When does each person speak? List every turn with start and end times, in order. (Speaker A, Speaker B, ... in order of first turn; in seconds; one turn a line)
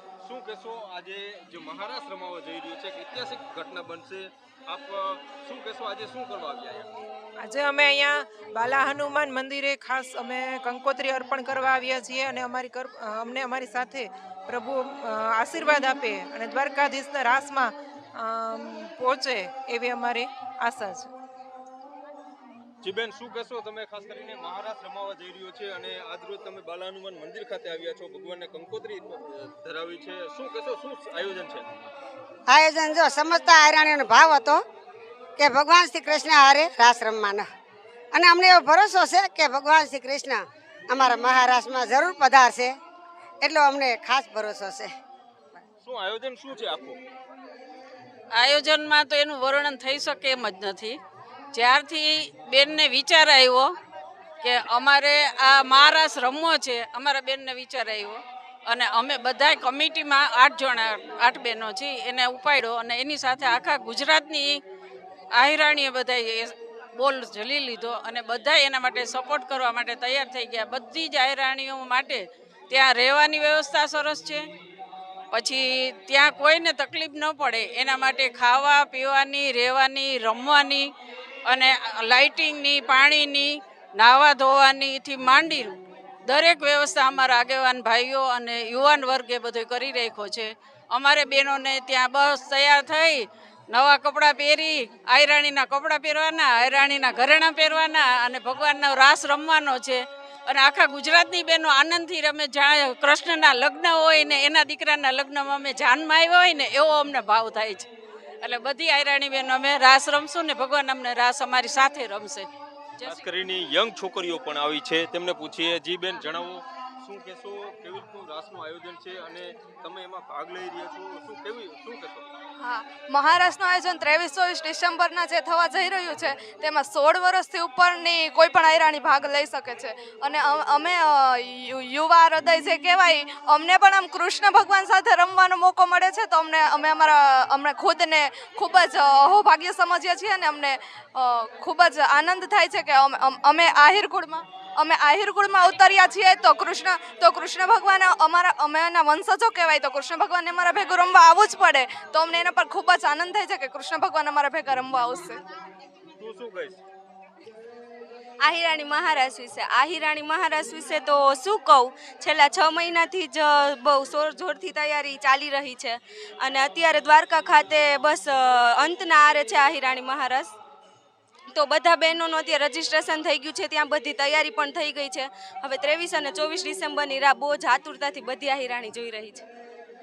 Speaker A: 0.2-6.9
Speaker B: 7.4-21.1
Speaker A: 22.8-31.7
Speaker C: 32.5-34.6
Speaker C: 35.4-37.5
Speaker C: 38.1-42.8
Speaker C: 43.4-44.9
Speaker A: 45.8-47.0
Speaker D: 48.3-51.0
Speaker D: 51.5-53.7
Speaker D: 54.4-64.6
Speaker D: 65.3-74.4
Speaker D: 75.3-80.9
Speaker D: 81.5-85.7
Speaker D: 86.3-107.9
Speaker D: 108.4-112.5
Speaker A: 113.0-122.3
Speaker E: 122.6-155.4
Speaker A: 156.2-156.8
Speaker F: 158.4-170.5
Speaker F: 171.6-179.4